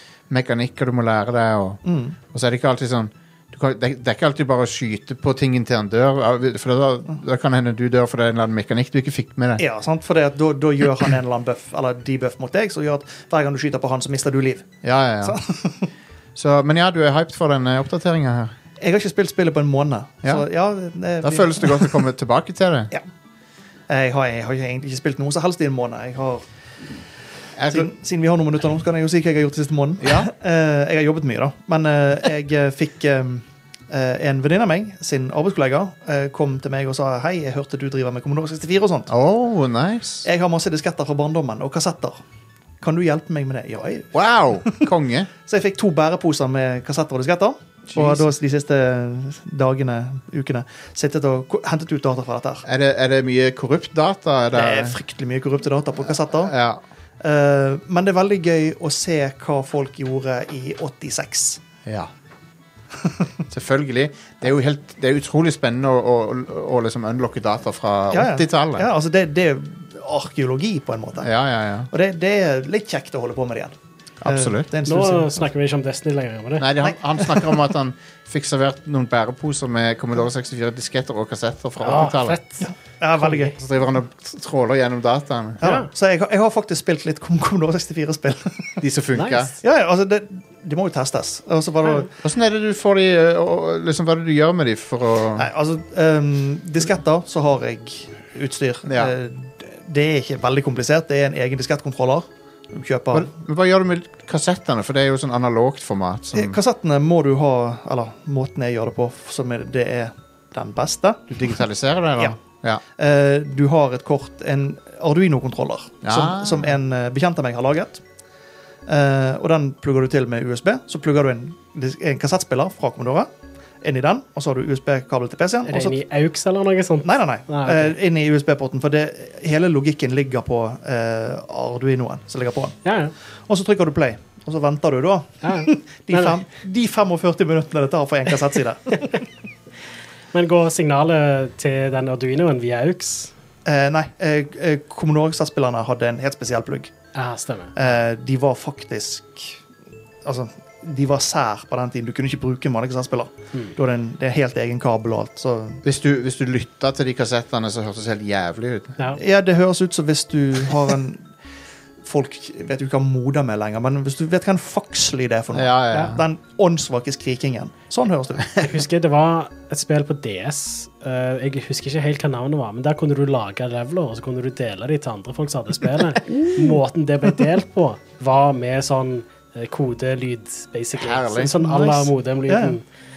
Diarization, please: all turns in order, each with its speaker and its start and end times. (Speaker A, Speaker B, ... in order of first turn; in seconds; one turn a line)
Speaker A: 0.3-9.6
Speaker B: 1.9-2.2
Speaker B: 9.6-15.9
Speaker A: 14.8-15.4
Speaker A: 16.4-18.5
Speaker B: 18.8-22.1
Speaker A: 21.2-22.9
Speaker B: 23.9-26.4
Speaker A: 27.6-27.9
Speaker B: 27.7-39.1
Speaker A: 30.0-30.3
Speaker A: 39.1-40.3
Speaker B: 40.2-42.2
Speaker B: 42.8-44.9
Speaker A: 44.1-45.3
Speaker B: 45.5-52.7
Speaker A: 47.9-48.3
Speaker A: 52.7-55.0
Speaker B: 54.5-56.5
Speaker A: 56.3-56.8
Speaker B: 57.2-61.6
Speaker A: 61.9-62.1
Speaker A: 63.5-68.9
Speaker B: 68.1-71.3
Speaker A: 71.2-71.9
Speaker B: 71.9-75.4
Speaker A: 74.2-74.7
Speaker C: 74.8-76.7
Speaker A: 76.6-82.4
Speaker C: 81.8-82.7
Speaker B: 82.7-83.5
Speaker A: 83.4-85.6
Speaker B: 85.6-88.8
Speaker C: 85.6-85.9
Speaker A: 88.8-89.5
Speaker C: 89.2-89.5
Speaker B: 89.6-92.1
Speaker A: 92.2-95.5
Speaker B: 95.4-103.3
Speaker A: 98.9-99.1
Speaker A: 103.1-106.6
Speaker B: 106.3-111.4
Speaker A: 111.3-112.8
Speaker B: 113.0-118.0
Speaker A: 116.0-116.7
Speaker B: 118.9-123.3
Speaker B: 123.8-126.0
Speaker C: 125.7-128.0
Speaker B: 127.0-132.8
Speaker C: 132.8-133.1
Speaker B: 133.5-139.2
Speaker C: 135.4-136.4
Speaker C: 140.3-143.3
Speaker B: 143.7-146.9
Speaker C: 147.2-147.8
Speaker B: 147.8-149.6
Speaker B: 150.2-155.8
Speaker A: 155.8-158.9
Speaker B: 159.2-161.3
Speaker B: 162.0-168.7
Speaker A: 165.5-166.2
Speaker C: 165.9-166.2
Speaker C: 168.6-182.8
Speaker A: 180.9-182.1
Speaker B: 182.5-182.8